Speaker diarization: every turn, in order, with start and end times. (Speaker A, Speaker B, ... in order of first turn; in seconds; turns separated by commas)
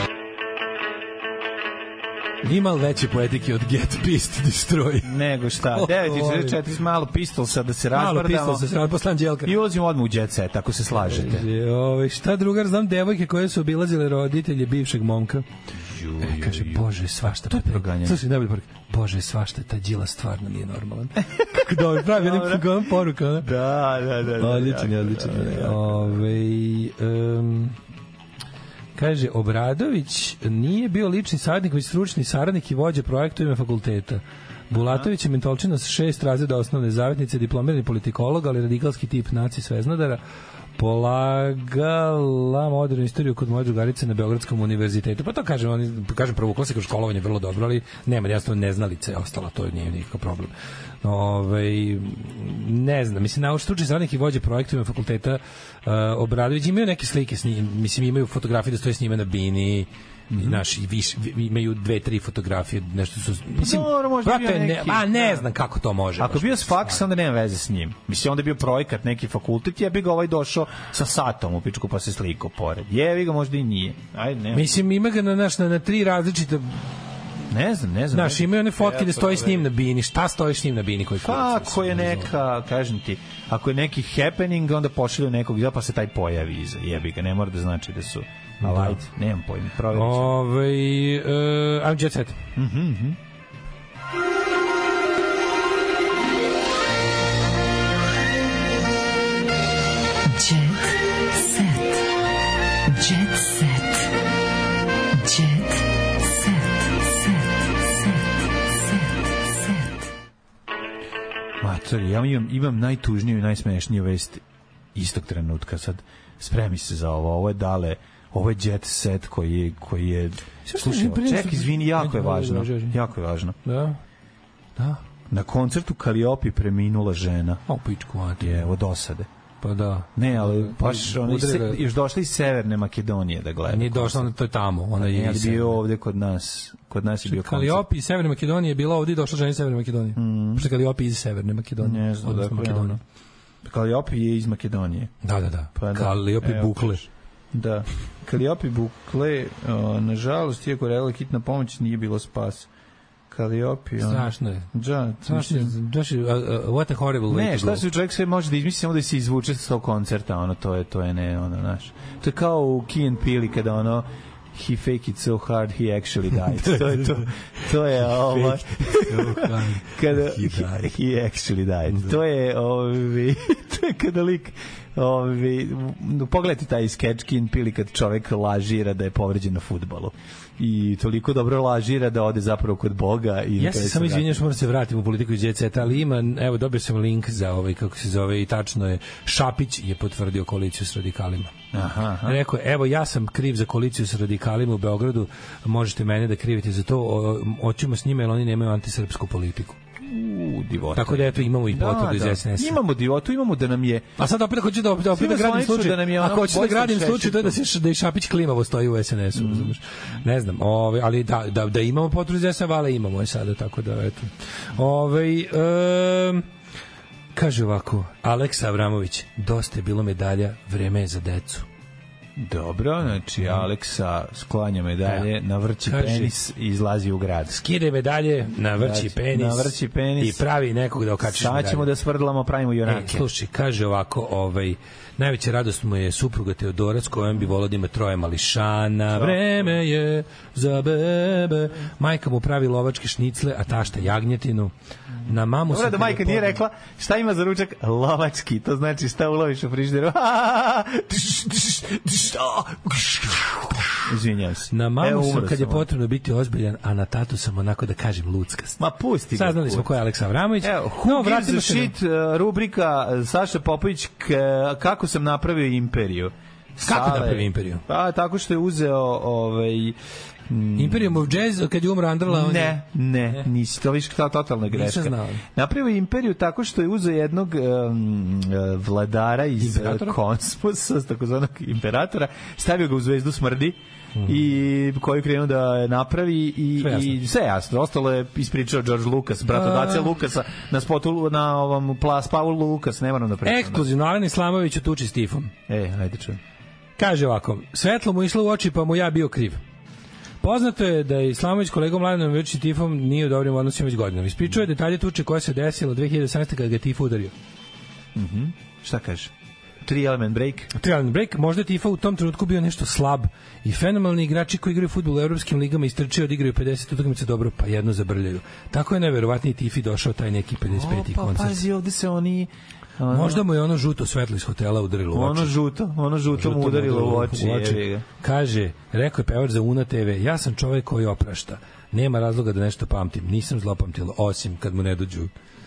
Speaker A: 2.4-5.1, Speaker B: 5.0-8.7, Speaker A: 5.7-6.6, Speaker A: 7.9-9.5, Speaker B: 9.4-11.5, Speaker A: 11.0-15.5, Speaker B: 15.8-18.2, Speaker A: 16.2-23.5, Speaker B: 21.4-22.9, Speaker B: 23.4-26.2, Speaker A: 24.4-27.8, Speaker A: 28.9-40.2, Speaker B: 34.7-35.1, Speaker A: 40.8-50.5, Speaker A: 51.0-67.0, Speaker B: 60.3-60.6, Speaker B: 63.6-65.5, Speaker B: 66.2-74.8, Speaker A: 74.5-76.8, Speaker B: 77.5-79.7, Speaker A: 78.1-82.3, Speaker B: 81.2-90.3, Speaker A: 88.6-89.0, Speaker A: 89.9-92.4, Speaker B: 92.6-93.2, Speaker C: 100.2-102.0, Speaker C: 102.9-104.1, Speaker C: 105.1-110.1, Speaker B: 111.6-114.4, Speaker B: 114.9-123.6, Speaker A: 120.7-123.0, Speaker A: 123.7-124.0, Speaker B: 125.3-127.6, Speaker A: 127.7-128.7, Speaker B: 128.4-129.3, Speaker A: 129.6-131.8, Speaker B: 130.2-134.3, Speaker A: 133.7-135.8, Speaker B: 135.0-137.9, Speaker A: 137.3-143.0, Speaker B: 140.2-140.7, Speaker B: 141.8-143.0, Speaker B: 143.6-145.1, Speaker A: 145.2-147.0, Speaker B: 145.8-152.7, Speaker B: 153.3-155.8, Speaker A: 154.0-154.7, Speaker A: 155.3-157.8, Speaker B: 157.3-184.4, Speaker A: 166.6-167.3, Speaker A: 168.1-170.9, Speaker A: 171.9-172.2, Speaker A: 183.6-191.5, Speaker B: 191.7-192.4, Speaker A: 192.2-199.8, Speaker B: 200.0-204.2, Speaker A: 200.9-202.8, Speaker A: 204.2-216.4, Speaker B: 205.1-207.6, Speaker B: 209.3-209.7, Speaker A: 217.3-221.7, Speaker B: 222.4-227.6, Speaker A: 225.8-226.3, Speaker A: 227.5-231.9, Speaker B: 228.8-230.4, Speaker B: 231.2-233.3, Speaker A: 232.9-244.7, Speaker B: 239.1-239.8, Speaker A: 245.2-246.6, Speaker B: 245.7-255.9, Speaker A: 254.7-258.8, Speaker B: 258.8-259.9, Speaker A: 259.3-261.9, Speaker B: 260.6-270.0, Speaker A: 266.8-267.8, Speaker B: 270.5-271.3, Speaker A: 270.8-272.8, Speaker B: 272.3-293.9, Speaker A: 274.7-275.4, Speaker A: 279.6-280.2, Speaker A: 286.8-287.2, Speaker A: 289.6-290.0, Speaker A: 293.4-295.5, Speaker B: 295.7-296.4, Speaker A: 297.0-299.6, Speaker A: 300.4-307.3, Speaker B: 308.1-310.7, Speaker A: 310.7-321.6, Speaker B: 320.7-323.5, Speaker A: 323.1-325.6, Speaker B: 325.1-328.1, Speaker A: 326.3-335.3